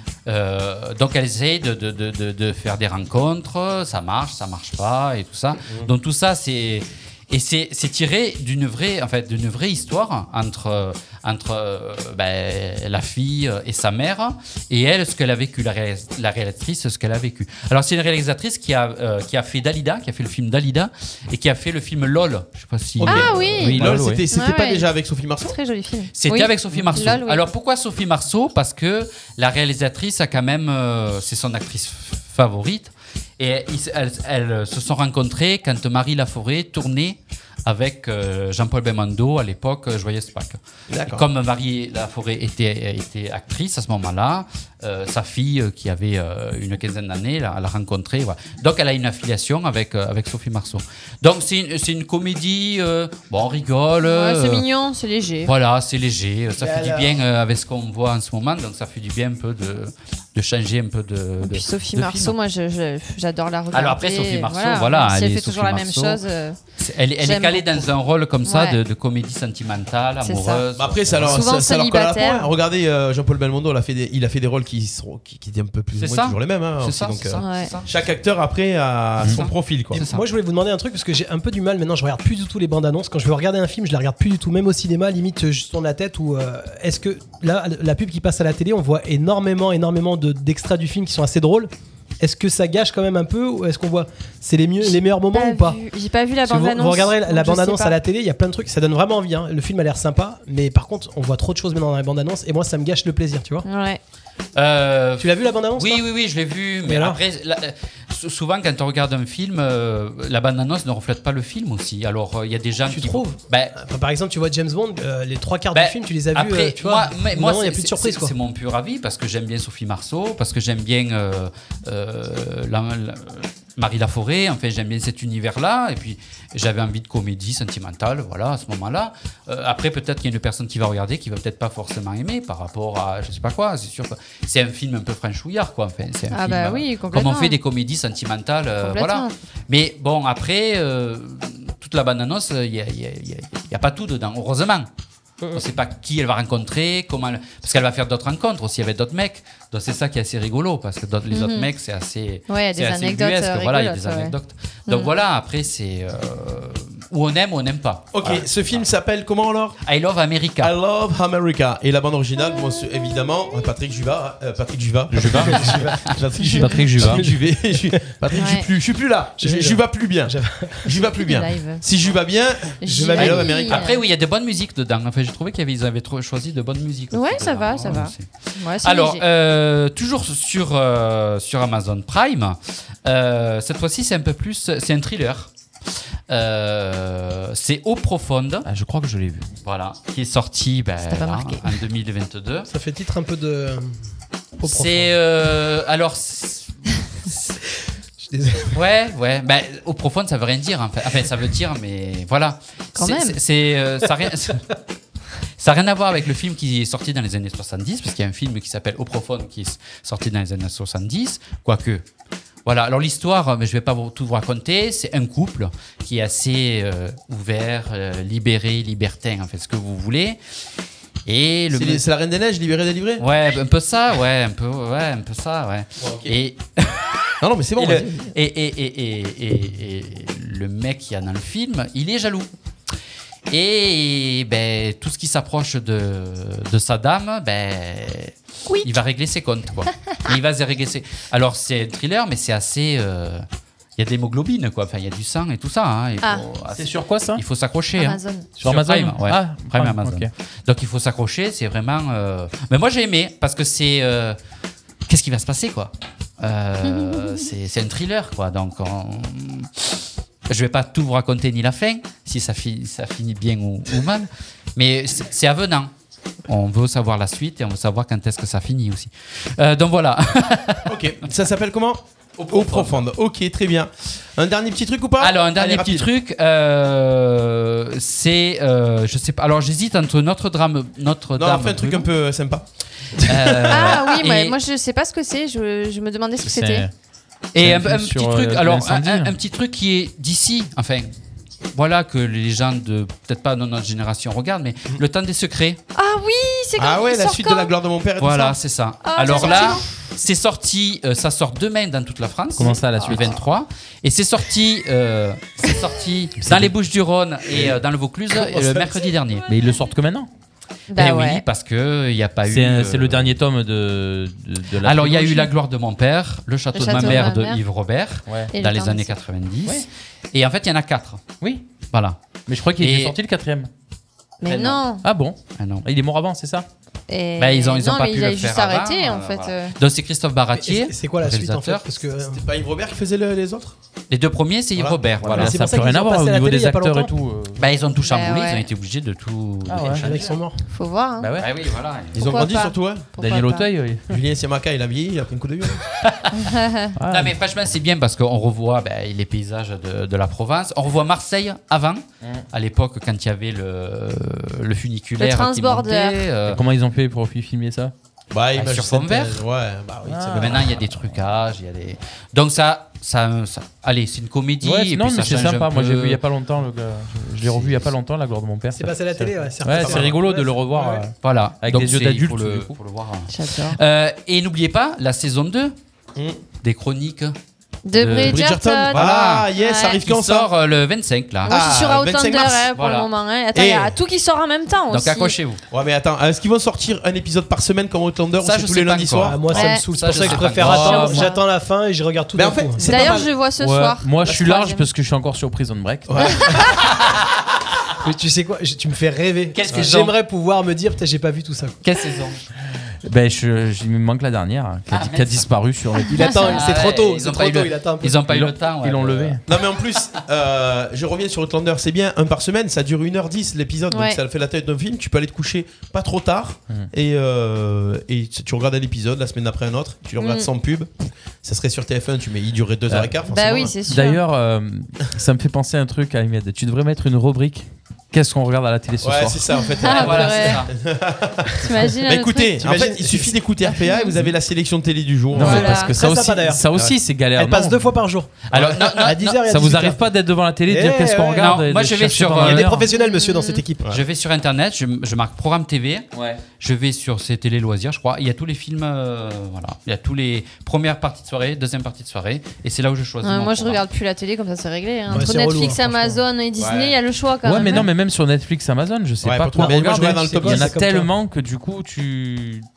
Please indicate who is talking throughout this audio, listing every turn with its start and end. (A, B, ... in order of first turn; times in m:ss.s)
0:00.2-0:23.5 A
0:23.0-0:25.6 B
0:23.0-0:27.4 C
0:23.1-0:24.2 D
0:26.1-0:54.6 A
0:40.9-0:41.2 B
0:54.0-0:55.5 C
0:55.4-1:02.4 A
0:56.6-0:57.2 E
1:01.4-1:06.6 C
1:03.7-1:06.2 A
1:06.8-1:11.4 A
1:07.2-1:07.9 C
1:08.4-1:08.8 C
1:10.2-1:10.6 C
1:10.8-1:20.0 B
1:11.2-1:12.5 C
1:16.0-1:17.9 A
1:17.4-1:17.7 C
1:19.2-1:19.5 D
1:19.3-1:20.2 A
1:19.9-1:35.8 E
1:34.8-1:38.0 C
1:36.4-1:43.7 E
1:43.6-1:44.0 C
1:44.6-1:53.7 A
1:45.2-1:46.0 E
1:46.8-1:47.2 E
1:52.9-1:58.3 E
1:55.7-2:24.9 A
2:16.3-2:17.6 C
2:18.8-2:19.3 C
2:25.5-2:38.8 A
2:31.3-2:31.7 C
2:32.5-2:35.1 C
2:38.1-2:39.8 B
2:39.8-2:40.7 A
2:40.6-2:53.9 B
2:45.1-2:47.3 D
2:45.3-2:46.0 E
2:47.0-2:48.0 E
2:48.3-2:48.7 C
2:49.4-2:50.9 E
2:51.0-2:51.8 C
2:52.8-2:54.0 C
2:52.8-2:53.5 E
2:53.3-3:05.5 A
2:57.1-2:59.2 C
3:06.3-3:08.7 A
3:08.6-3:09.4 D
3:09.6-3:12.7 A
3:11.0-3:11.8 C
3:12.7-3:14.0 E
3:14.6-3:15.2 E
3:14.6-3:17.6 A
3:18.2-3:18.8 E
3:18.7-3:24.6 A
3:23.0-3:23.4 C
3:25.6-3:32.0 A
3:32.6-3:40.4 A
3:41.2-3:42.0 A
3:41.7-3:43.2 B
3:43.2-3:47.0 A
3:46.0-3:46.3 B
3:47.4-3:48.2 B
3:47.8-3:48.1 D
3:48.3-3:52.5 A
3:53.5-4:03.4 A
4:04.0-4:14.4 A
4:06.7-4:07.4 D
4:08.0-4:08.5 C
4:08.6-4:10.3 D
4:15.1-4:20.0 A
4:16.8-4:17.4 C
4:20.5-4:25.9 A
4:26.5-4:30.9 A
4:30.8-4:36.1 B
4:32.5-4:33.0 A
4:35.2-4:42.1 A
4:41.4-4:42.6 B
4:43.2-4:44.0 B
4:43.2-4:44.6 A
4:43.7-4:46.9 C
4:46.4-4:46.9 D
4:47.5-4:51.1 A
4:47.6-4:49.3 D
4:51.7-4:55.8 A
4:55.9-4:57.7 C
4:56.8-4:58.6 B
4:58.2-5:09.4 A
4:59.0-4:59.8 C
5:02.6-5:03.4 D
5:06.4-5:06.7 D
5:09.5-5:10.3 D
5:10.9-5:11.4 C
5:10.9-5:13.3 A
5:12.4-5:15.5 D
5:14.8-5:21.2 A
5:16.7-5:17.6 C
5:16.9-5:17.3 D
5:18.2-5:18.5 D
5:18.5-5:19.2 C
5:21.9-5:22.2 A
5:22.5-5:23.7 D
5:22.8-5:23.2 A
5:24.4-5:25.0 C
5:24.4-5:24.9 A
5:25.0-5:26.7 D
5:25.6-5:25.8 A
5:27.1-5:29.7 C
5:27.4-5:31.8 A
5:30.5-5:32.4 E
5:32.3-5:33.7 B
5:34.1-5:35.5 A
5:34.8-5:35.4 B
5:35.3-5:37.1 E
5:35.3-5:37.6 D
5:37.6-5:40.3 A
5:38.0-5:38.7 C
5:39.6-5:40.3 D
5:40.0-5:40.6 E
5:40.7-5:41.3 C
5:41.2-5:41.5 D
5:41.4-5:42.5 A
5:42.1-5:43.7 C
5:42.1-5:43.1 B
5:43.2-5:44.2 D
5:44.1-5:45.9 B
5:46.0-5:46.5 A
5:46.3-5:46.9 C
5:47.0-5:47.4 D
5:47.1-5:56.6 A
5:55.2-5:56.3 C
5:56.4-5:57.9 D
5:58.3-6:00.7 B
5:58.5-5:59.4 A
6:00.1-6:00.9 D
6:00.3-6:06.2 A
6:04.6-6:12.8 D
6:07.5-6:07.8 A
6:08.7-6:11.1 E
6:11.2-6:15.7 A
6:13.3-6:13.8 C
6:16.6-6:17.3 A
6:17.8-6:20.0 C
6:17.9-6:21.6 A
6:18.2-6:20.5 B
6:21.5-6:25.4 C
6:21.5-6:22.7 B
6:22.7-6:23.1 A
6:23.5-6:24.0 B
6:24.9-6:25.6 A
6:25.7-6:29.5 B
6:28.4-6:31.1 A
6:29.2-6:33.1 E
6:29.5-6:30.0 C
6:30.3-6:31.3 D
6:30.6-6:31.4 C
6:32.3-6:33.3 B
6:32.8-6:34.9 C
6:33.6-6:36.6 D
6:36.1-6:36.6 B
6:38.0-6:41.8 E
6:39.5-6:40.2 A
6:41.8-6:42.4 A
6:43.0-6:46.3 D
6:44.9-6:45.5 A
6:46.1-6:48.1 E
6:46.4-6:49.4 A
6:48.2-6:49.4 D
6:49.4-7:00.9 B
6:53.9-6:54.2 C
7:00.2-7:00.5 C
7:01.4-7:03.7 B
7:02.9-7:03.2 D
7:03.2-7:04.2 C
7:03.8-7:09.6 D
7:09.0-7:17.0 B
7:09.6-7:10.7 C
7:09.8-7:10.7 A
7:11.6-7:12.7 C
7:12.6-7:13.4 E
7:13.6-7:14.2 C
7:15.3-7:18.0 D
7:15.4-7:20.1 E
7:15.4-7:16.0 C
7:18.5-7:19.3 A
7:19.3-7:22.8 D
7:20.6-7:21.6 E
7:21.3-7:22.8 A
7:22.4-7:23.9 E
7:22.9-7:23.6 C
7:23.8-7:26.1 A
7:26.1-7:26.4 D
7:26.6-7:33.8 A
7:33.2-7:37.9 C
7:35.1-7:36.2 E
7:36.6-7:37.0 B
7:37.4-7:42.7 D
7:39.2-7:40.7 B
7:39.6-7:41.1 E